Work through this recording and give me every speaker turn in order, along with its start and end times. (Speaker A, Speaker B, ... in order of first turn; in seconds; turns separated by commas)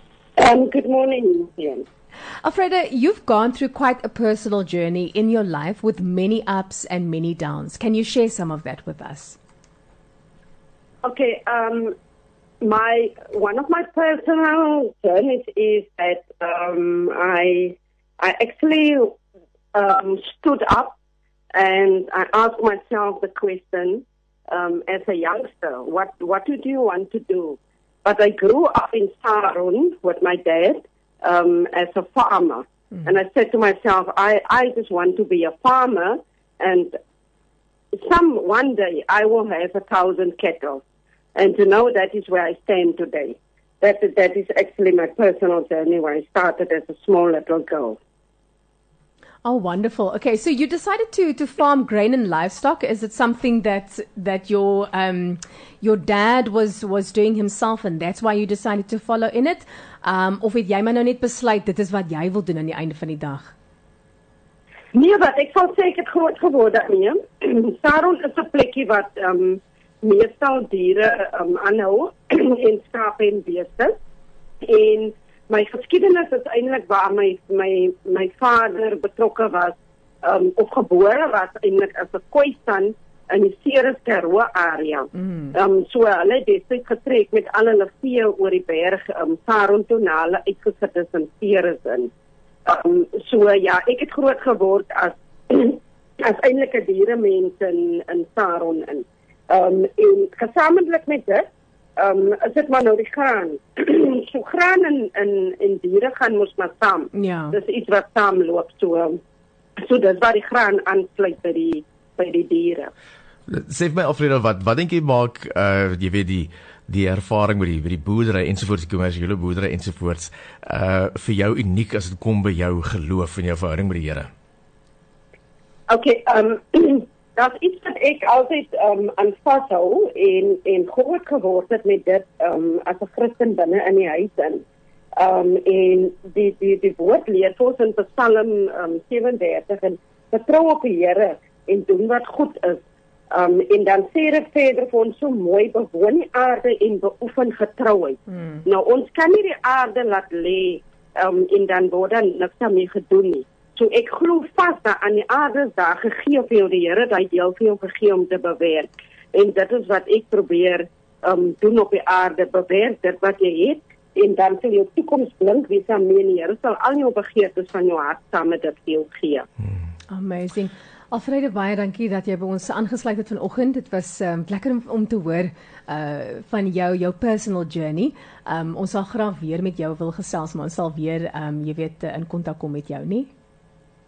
Speaker A: 0.4-1.9, Speaker B: 2.4-9.4, Speaker A: 11.0-11.9, Speaker A: 12.6-19.1, Speaker A: 19.7-21.0, Speaker A: 21.5-37.0, Speaker A: 37.9-40.8, Speaker A: 41.4-48.0, Speaker B: 49.4-63.5, Speaker A: 64.9-74.0, Speaker A: 74.6-92.1, Speaker A: 92.7-101.4, Speaker A: 102.0-109.2, Speaker B: 107.1-107.6, Speaker A: 109.8-112.9, Speaker C: 113.5-124.3, Speaker A: 125.9-134.6, Speaker A: 135.2-169.5, Speaker B: 170.1-183.3